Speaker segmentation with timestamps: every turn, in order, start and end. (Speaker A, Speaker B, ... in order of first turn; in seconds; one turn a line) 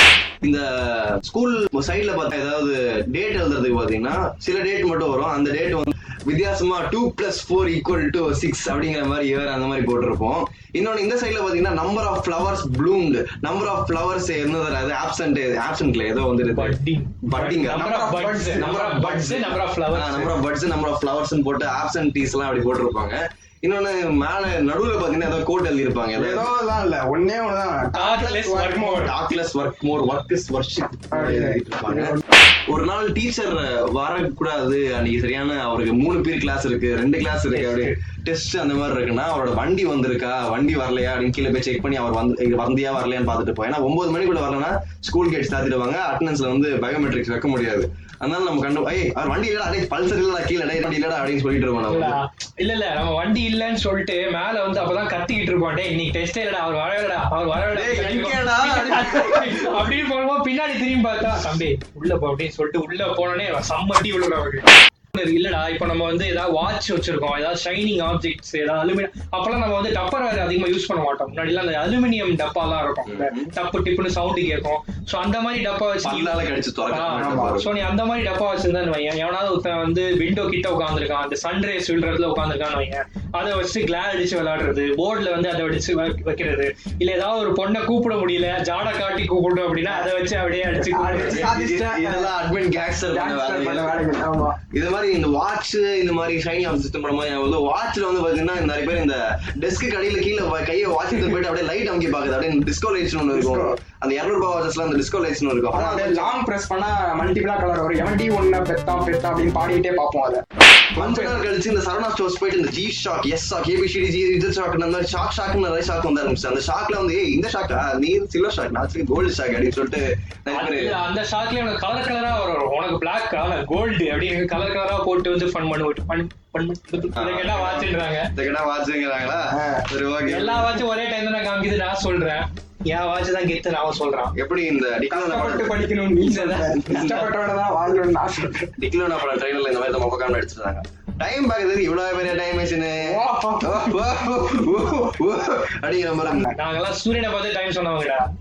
Speaker A: 0.4-17.9
Speaker B: 16.5-20.3
Speaker C: 17.7-18.7
Speaker A: 18.6-26.5
Speaker C: 26.1-29.0
Speaker B: 27.9-29.1
Speaker A: 28.9-52.1
Speaker C: 31.1-32.2
Speaker B: 37.5-38.0
Speaker B: 51.9-91.5
Speaker A: 57.7-59.9
Speaker A: 73.0-73.5
Speaker A: 76.0-77.7
Speaker C: 77.1-77.6
Speaker C: 90.8-92.3
Speaker A: 91.1-94.0
Speaker C: 93.1-94.6
Speaker A: 94.7-106.3
Speaker C: 103.3-103.8
Speaker C: 105.7-110.4
Speaker C: 110.9-111.4
Speaker A: 111.0-121.0
Speaker B: 120.5-128.3
Speaker A: 127.1-130.8
Speaker C: 129.5-129.9
Speaker B: 130.2-134.3
Speaker A: 134.3-135.7
Speaker C: 135.1-138.7
Speaker B: 136.2-137.2
Speaker A: 136.9-137.2
Speaker A: 138.8-146.5
Speaker C: 143.0-143.9
Speaker C: 146.2-146.5
Speaker B: 146.5-148.2